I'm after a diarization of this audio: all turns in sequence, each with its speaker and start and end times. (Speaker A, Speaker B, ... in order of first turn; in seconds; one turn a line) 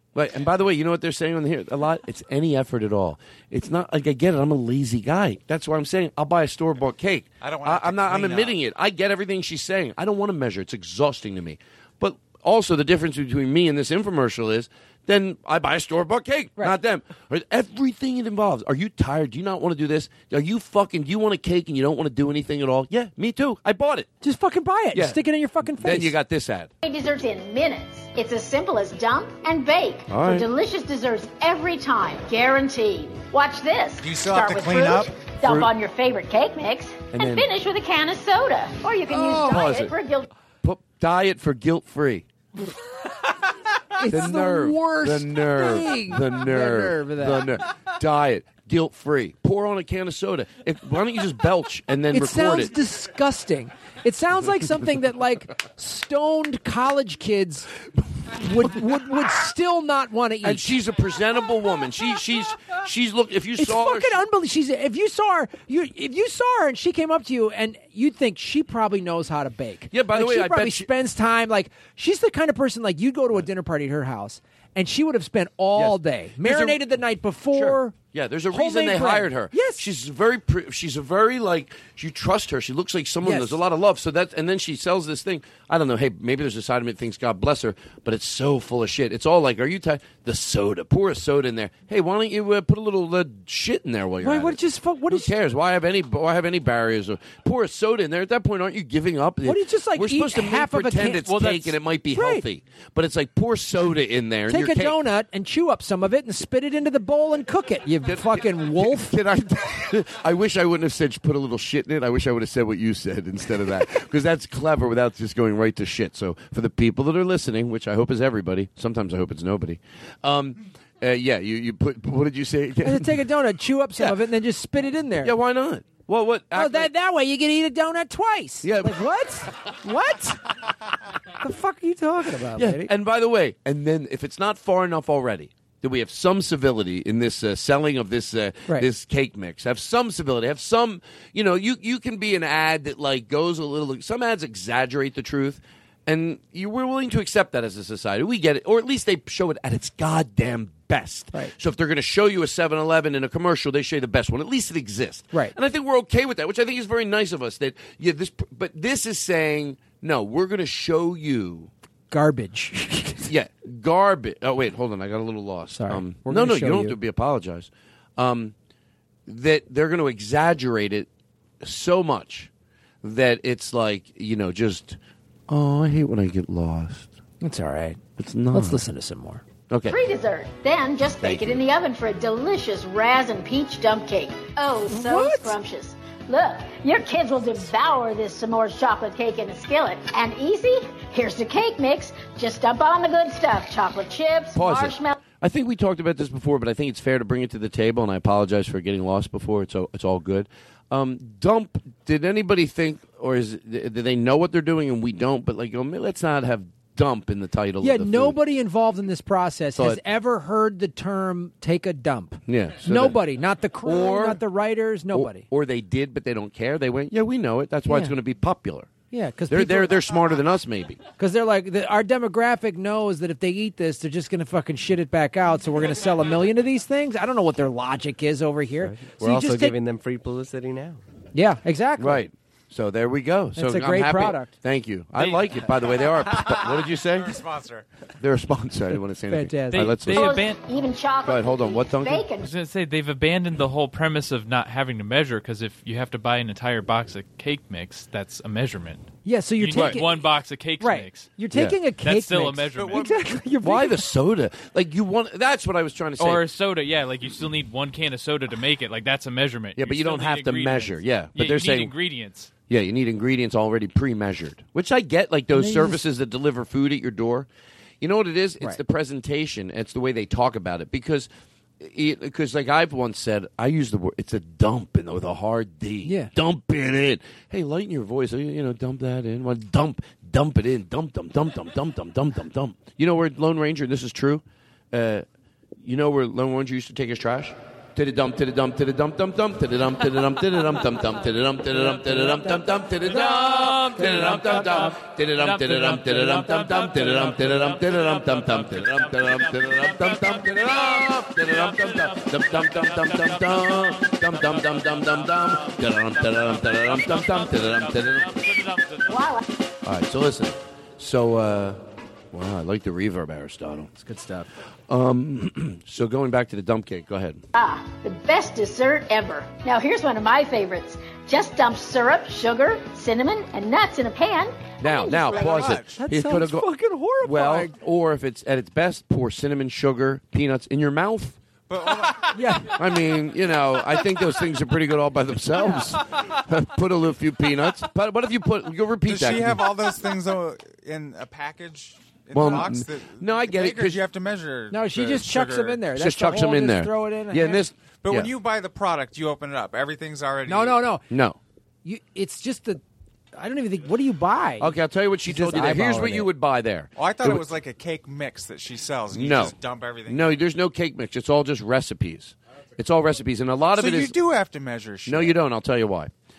Speaker A: 0.1-24.1
Speaker B: 7.4-8.6
Speaker C: 24.2-26.1
Speaker A: 24.9-26.7
Speaker D: 26.8-40.3
Speaker A: 30.1-30.4
Speaker B: 34.0-35.1
Speaker A: 35.4-35.7
Speaker A: 37.1-37.5
Speaker C: 39.1-39.7
Speaker A: 39.5-39.9
Speaker A: 40.6-42.3
Speaker C: 44.0-47.5
Speaker A: 44.1-52.7
Speaker C: 52.1-57.7
Speaker C: 58.4-60.7
Speaker A: 60.4-64.2
Speaker C: 63.6-78.0
Speaker A: 69.9-70.9
Speaker A: 75.7-76.9
Speaker A: 77.5-105.0
Speaker C: 78.5-79.8
Speaker C: 83.2-83.6
Speaker C: 94.2-95.3
Speaker C: 99.5-102.5
Speaker C: 104.5-109.2
Speaker A: 108.1-123.2
Speaker C: 122.8-125.3
Speaker A: 125.2-126.9
Speaker C: 126.5-130.4
Speaker A: 128.6-129.0
Speaker C: 131.4-132.9
Speaker A: 132.6-161.7
Speaker C: 162.1-163.3
Speaker A: 163.2-168.6
Speaker C: 165.7-166.9
Speaker A: 169.3-171.1
Speaker A: 171.6-172.5
Speaker A: 173.0-177.1
Speaker C: 177.4-178.0
Speaker A: 178.2-178.8
Speaker C: 178.5-179.4
Speaker A: 179.7-180.0
Speaker D: 179.9-195.2
Speaker A: 181.2-181.6
Speaker C: 184.9-185.6
Speaker A: 194.6-208.4
Speaker C: 207.8-215.5
Speaker A: 209.8-210.0
Speaker A: 212.5-213.2
Speaker A: 213.8-214.4
Speaker A: 215.1-218.9
Speaker C: 217.9-218.2
Speaker C: 219.1-220.1
Speaker A: 219.5-221.0
Speaker C: 221.2-229.8
Speaker E: 228.9-231.0
Speaker C: 231.3-232.2
Speaker A: 232.0-237.4
Speaker C: 233.6-234.5
Speaker F: 235.1-235.7
Speaker B: 236.3-237.9
Speaker A: 238.2-240.4
Speaker C: 239.3-240.0
Speaker F: 239.7-240.6
Speaker D: 240.1-242.5
Speaker A: 241.3-242.3
Speaker F: 242.4-251.4
Speaker C: 249.2-254.0
Speaker A: 249.7-250.0
Speaker A: 251.5-251.8
Speaker F: 252.0-253.1
Speaker B: 252.8-253.3
Speaker A: 253.6-256.4
Speaker F: 256.2-262.5
Speaker A: 259.8-262.0
Speaker A: 262.7-267.5
Speaker C: 265.5-266.0
Speaker A: 268.0-285.2
Speaker C: 276.1-276.3
Speaker A: 285.8-308.4
Speaker C: 291.7-295.0
Speaker F: 293.5-309.3
Speaker C: 296.3-296.7
Speaker D: 309.1-309.4
Speaker A: 309.8-311.8
Speaker A: 312.3-314.0
Speaker C: 314.0-314.4
Speaker A: 314.9-317.4
Speaker D: 317.6-325.7
Speaker A: 324.8-326.7
Speaker B: 325.3-326.0
Speaker C: 325.9-327.7
Speaker A: 327.2-331.4
Speaker B: 331.7-332.4
Speaker C: 332.3-332.7
Speaker A: 332.7-339.6
Speaker C: 335.5-335.9
Speaker B: 339.1-345.8
Speaker A: 342.3-344.0
Speaker C: 344.7-347.7
Speaker A: 345.9-348.3
Speaker B: 348.0-350.8
Speaker C: 350.5-351.0
Speaker A: 351.1-351.4
Speaker C: 351.9-352.8
Speaker C: 353.4-354.7
Speaker A: 354.6-357.4
Speaker C: 355.3-356.3
Speaker B: 356.9-360.4
Speaker A: 359.1-364.1
Speaker B: 363.7-365.4
Speaker A: 365.1-366.1